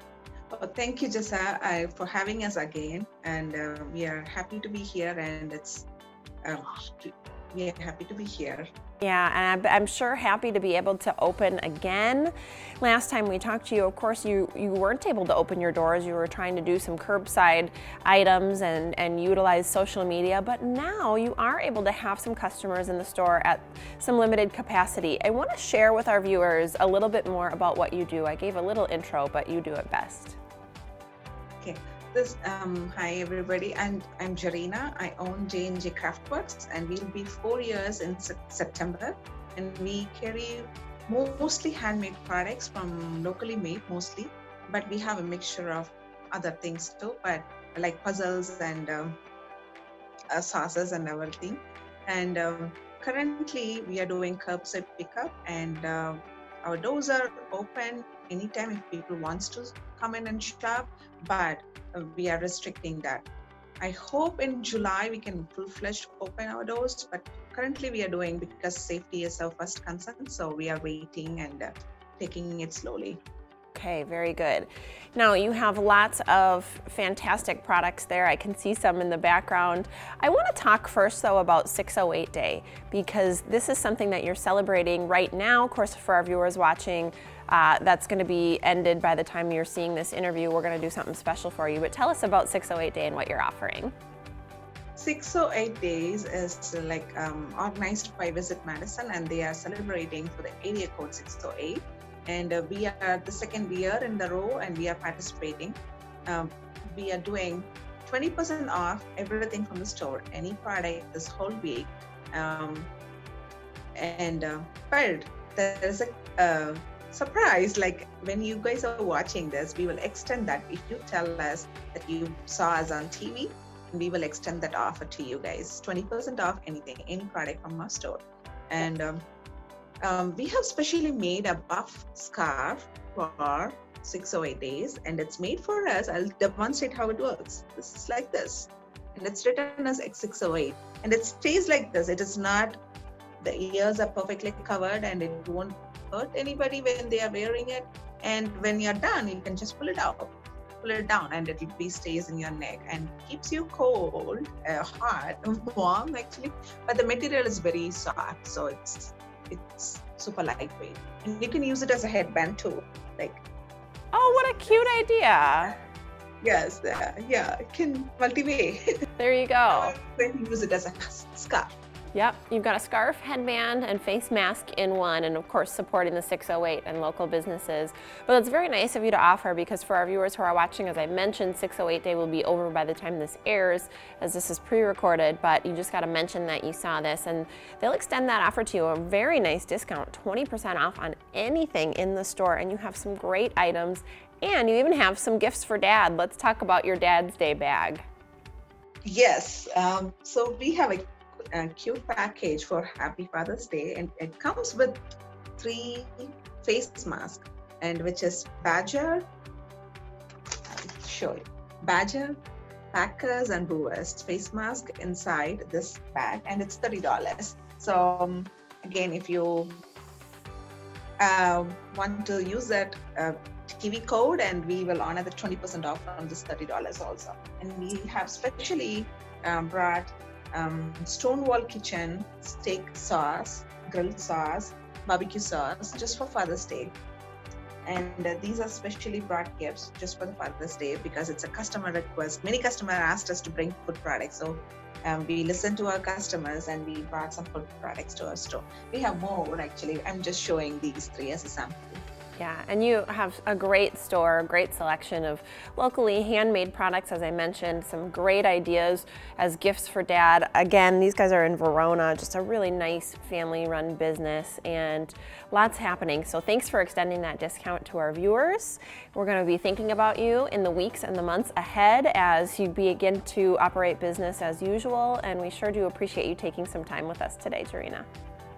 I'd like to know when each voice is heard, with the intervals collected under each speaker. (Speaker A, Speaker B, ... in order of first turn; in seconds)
Speaker A: 0.5-5.9, 6.4-8.7, 31.6-49.2, 50.3-63.2, 63.8-73.2, 95.0-112.9, 114.0-129.2, 130.0-142.8, 143.4-163.4, 166.4-168.9, 169.7-171.8, 199.1-205.0, 205.6-209.2, 210.7-212.4, 212.9-219.8, 221.2-236.9, 237.8-252.0
Speaker B: 9.0-30.4, 73.7-93.9, 164.1-165.8, 169.2-169.9, 172.1-198.0, 252.4-278.1